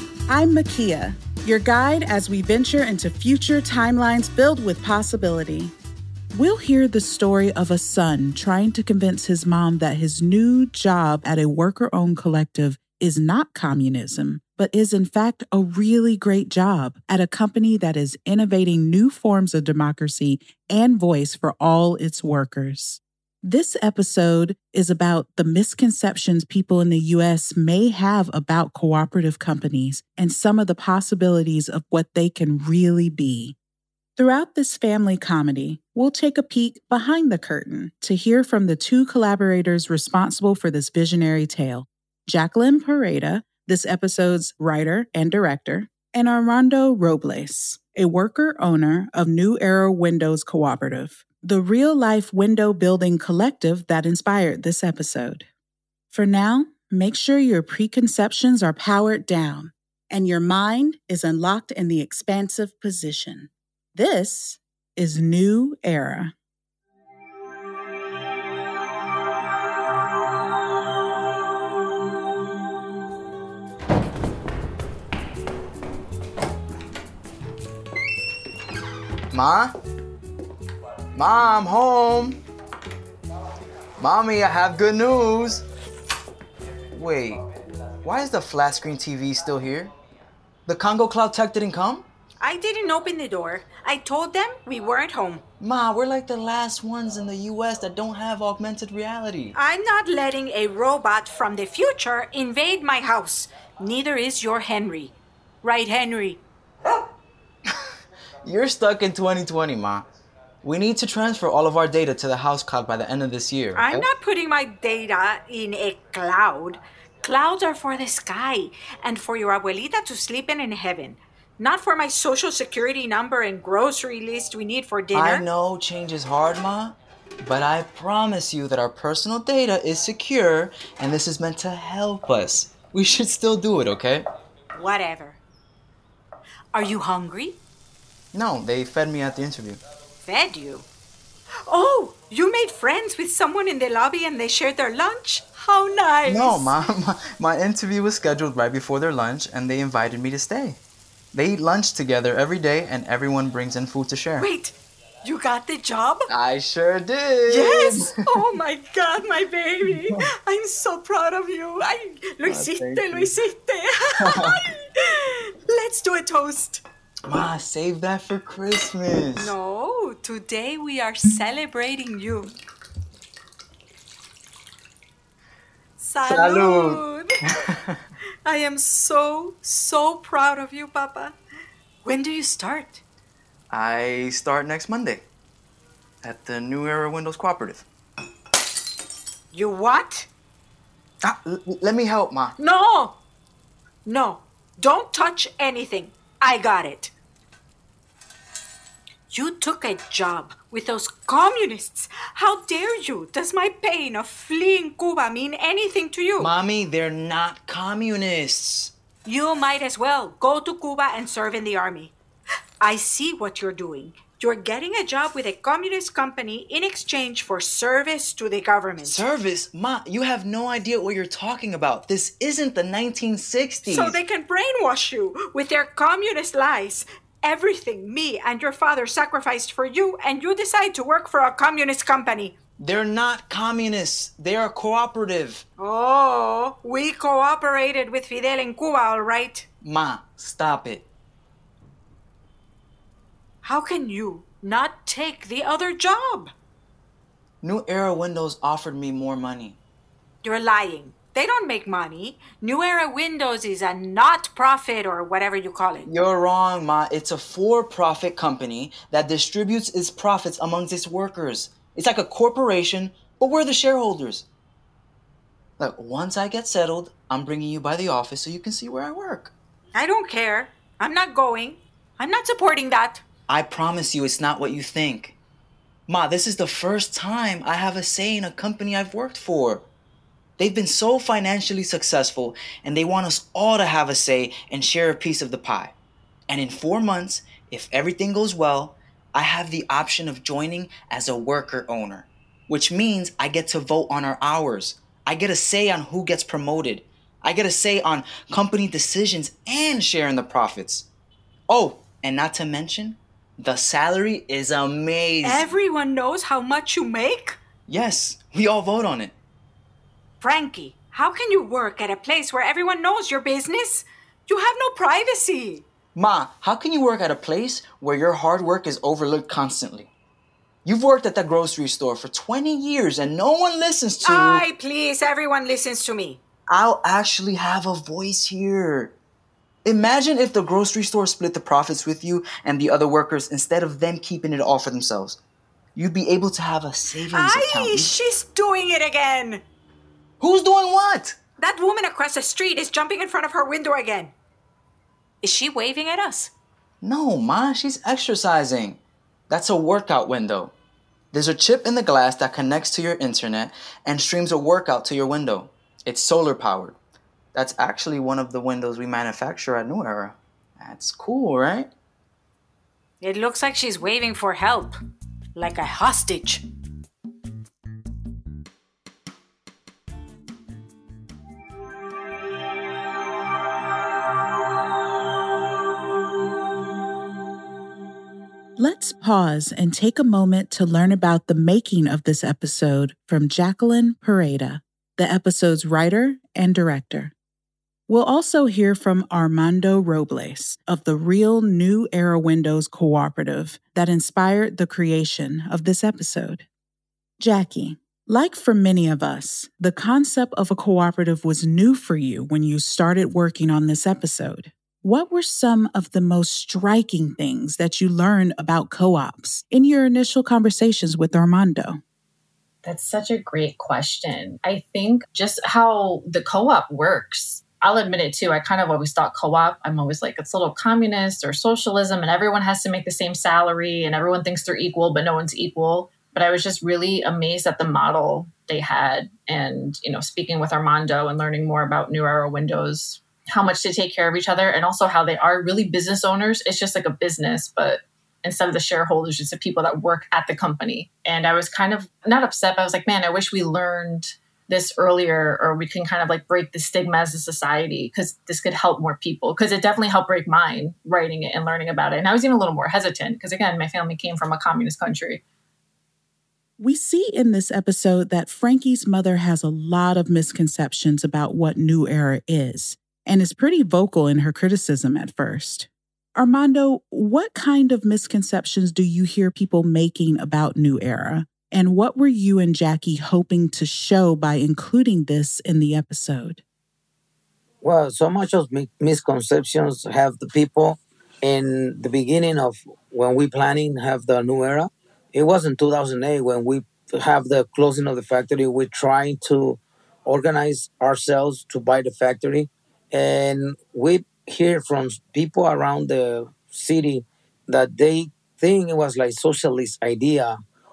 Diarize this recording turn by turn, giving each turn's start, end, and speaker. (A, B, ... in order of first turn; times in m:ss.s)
0:00.3-0:05.7 A
0:06.3-0:33.6 A
0:34.2-0:55.5 A
0:56.1-1:06.3 A
1:19.3-1:19.7 B
1:21.1-1:22.4 B
1:24.0-1:25.6 B
1:26.9-1:27.4 B
1:28.0-1:29.9 B
1:30.7-1:32.1 B
1:32.4-1:35.4 C
1:35.6-1:39.5 B
1:39.5-1:46.4 C
1:48.4-1:50.0 B
1:50.6-1:54.0 B
1:53.7-2:05.5 C
2:05.1-2:14.2 B
2:14.7-2:15.4 C
2:16.7-2:17.6 C
2:18.3-2:19.8 B
2:20.2-2:20.9 C
2:21.6-2:26.8 C
2:26.2-2:30.8 B
2:31.3-2:34.5 B
2:34.4-2:36.3 C
2:36.3-2:38.4 B
2:37.5-2:46.8 C
2:42.4-2:43.3 B
2:44.2-2:44.7 B
2:47.2-2:49.5 B
2:49.3-2:52.6 C
2:56.0-2:57.4 C
2:56.4-2:56.7 B
2:57.5-2:58.0 B
2:58.4-3:01.4 C
3:02.0-3:03.0 C
3:03.7-3:05.2 B
3:06.2-3:07.8 B
3:09.5-3:10.3 C
3:11.2-3:12.5 B
3:12.6-3:13.2 C
3:14.0-3:17.1 C
3:19.3-3:26.5 C
3:26.4-3:28.9 B
3:29.2-3:32.1 C
3:32.8-3:39.2 C
3:39.0-3:44.2 B
3:43.8-3:52.6 C
3:52.8-3:55.6 B
3:55.8-3:59.7 C
3:59.8-4:01.0 B
4:03.6-4:06.5 C
4:07.6-4:09.8 B
4:10.4-4:16.1 C
4:16.0-4:24.4 B
4:25.8-4:29.5 B
4:29.9-4:33.2 C
4:33.5-4:35.4 B
4:36.1-4:39.8 B
4:40.6-4:45.9 B
4:46.5-5:01.0 B
5:01.7-5:05.7 B
5:05.4-5:07.6 C
5:07.9-5:09.3 B
5:10.4-5:15.8 C
5:16.1-5:20.1 B
5:20.8-5:24.6 B
5:24.2-5:26.4 C
5:26.7-5:29.1 B
5:29.8-5:35.4 B
5:35.9-5:38.1 B
5:37.1-5:39.6 C
5:40.4-5:41.4 B
5:41.6-5:44.3 C
5:45.4-5:46.5 C
5:47.0-5:49.0 B
5:49.5-5:50.7 B
5:51.3-5:57.0 B
5:57.5-6:01.9 B
6:03.2-6:05.0 C
6:05.6-6:06.6 C
6:18.8-6:27.3 A
6:28.1-6:36.6 A
6:37.4-6:52.0 A
6:52.8-7:35.4 D
7:36.8-7:56.6 A
7:57.8-8:20.6 E